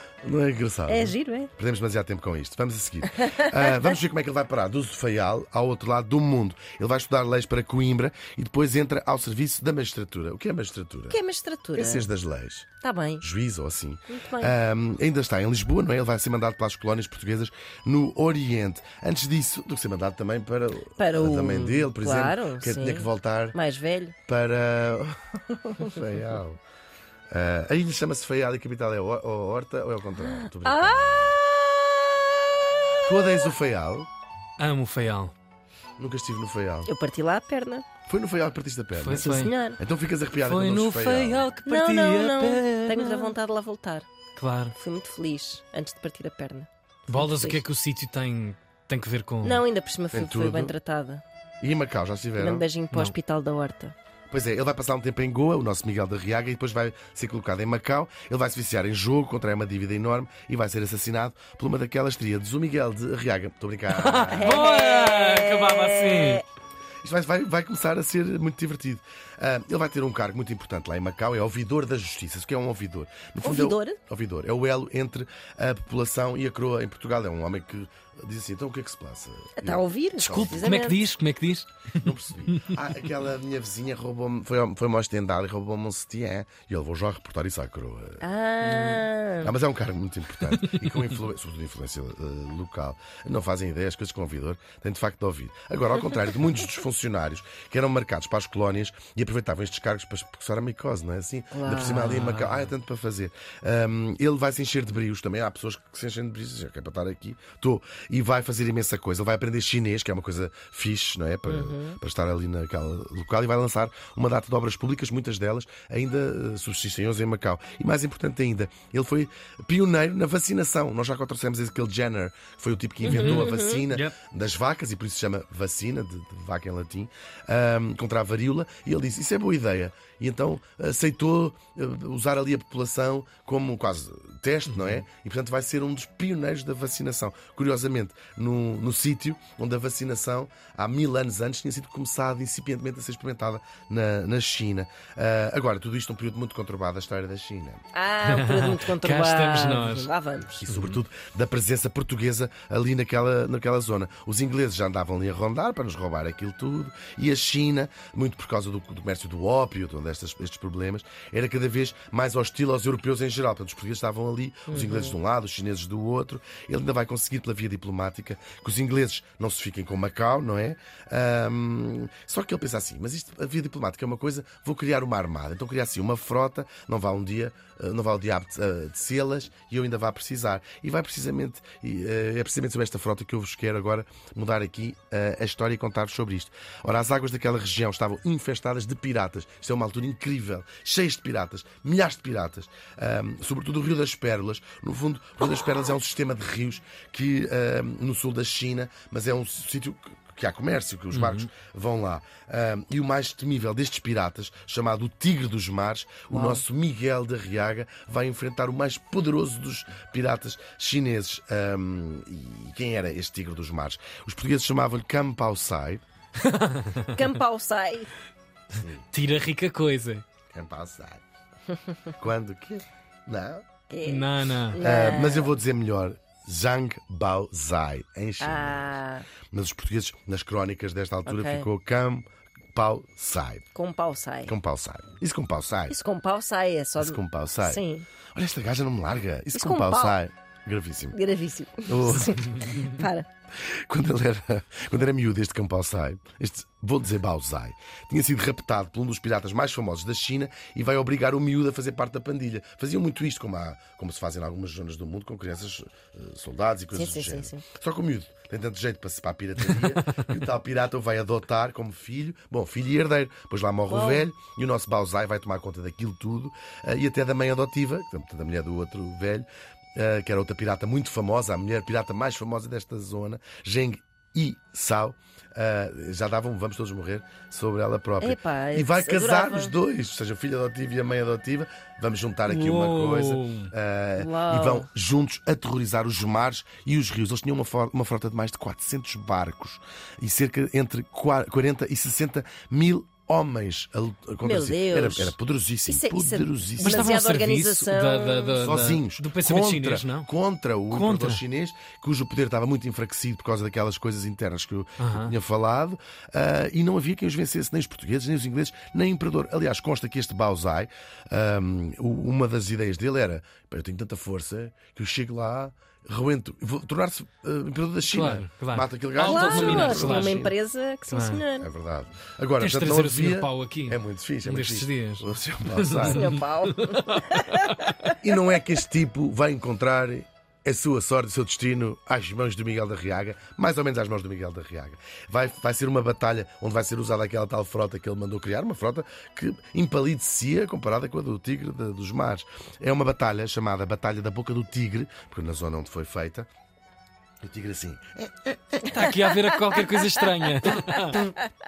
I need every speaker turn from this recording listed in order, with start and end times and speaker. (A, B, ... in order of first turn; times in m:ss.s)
0:00.2-0:11.2 A
0:00.9-0:01.5 B
0:03.2-0:03.9 B
0:11.1-0:12.1 B
0:11.8-0:23.6 A
0:12.8-0:13.2 B
0:14.1-0:14.6 B
0:21.0-0:24.1 B
0:24.3-0:26.6 A
0:27.3-0:31.4 A
0:30.2-0:32.1 B
0:33.0-0:34.1 A
0:34.6-0:35.3 C
0:36.0-0:36.9 A
0:36.8-0:37.9 B
0:38.1-0:41.5 A
0:39.0-0:39.5 C
0:39.2-0:39.8 B
0:40.4-0:43.3 C
0:41.6-0:44.1 B
0:44.4-0:44.8 C
0:44.7-0:47.6 B
0:47.1-0:49.6 C
0:49.4-0:51.2 B
0:50.1-0:50.7 A
0:51.6-0:52.7 A
0:52.4-0:54.0 B
0:54.3-1:04.6 A
1:03.9-1:06.4 C
1:04.3-1:06.4 B
1:07.0-1:20.8 A
1:13.4-1:14.0 B
1:19.6-1:21.0 B
1:20.2-1:22.8 C
1:22.0-1:28.2 A
1:28.2-1:29.5 B
1:28.7-1:29.0 C
1:29.4-2:27.8 A
1:30.5-1:31.2 C
1:41.5-1:42.2 B
1:41.8-1:42.7 C
1:51.5-1:52.0 B
2:03.0-2:04.2 C
2:03.0-2:03.8 B
2:14.7-2:15.0 C
2:27.9-2:30.6 B
2:28.2-2:30.1 C
2:30.6-3:36.0 A
2:30.7-2:31.0 C
2:44.7-2:45.2 B
3:21.1-3:21.5 C
3:26.3-3:26.6 B
3:36.4-3:37.1 C
3:37.1-3:38.1 B
3:38.7-3:39.1 A
3:39.1-3:40.2 C
3:40.5-3:41.2 A
3:42.2-3:43.6 A
3:43.9-3:45.5 B
3:44.0-3:44.8 C
3:44.8-3:49.0 A
3:48.4-3:49.3 B
3:49.5-3:53.6 A
3:51.2-3:51.7 B
3:53.7-3:54.5 B
3:54.5-3:56.0 A
3:55.9-3:58.1 B
3:57.0-3:57.8 A
3:58.3-4:01.2 A
3:59.5-4:00.2 B
4:01.1-4:03.3 B
4:01.8-4:02.9 A
4:03.6-4:57.1 A
4:16.9-4:17.6 B
4:23.9-4:24.2 B
4:38.2-4:39.8 B
4:42.4-4:43.7 C
4:44.2-4:44.9 B
4:54.4-4:58.7 B
4:56.8-5:00.3 C
4:58.6-5:20.5 A
5:00.9-5:01.4 C
5:05.0-5:05.3 C
5:18.1-5:20.5 C
5:19.3-5:21.7 B
5:21.1-5:21.4 C
5:21.6-5:26.3 A
5:22.6-5:27.9 C
5:26.0-5:28.2 B
5:28.2-5:46.5 A
5:47.4-5:49.0 A
5:48.8-5:51.3 C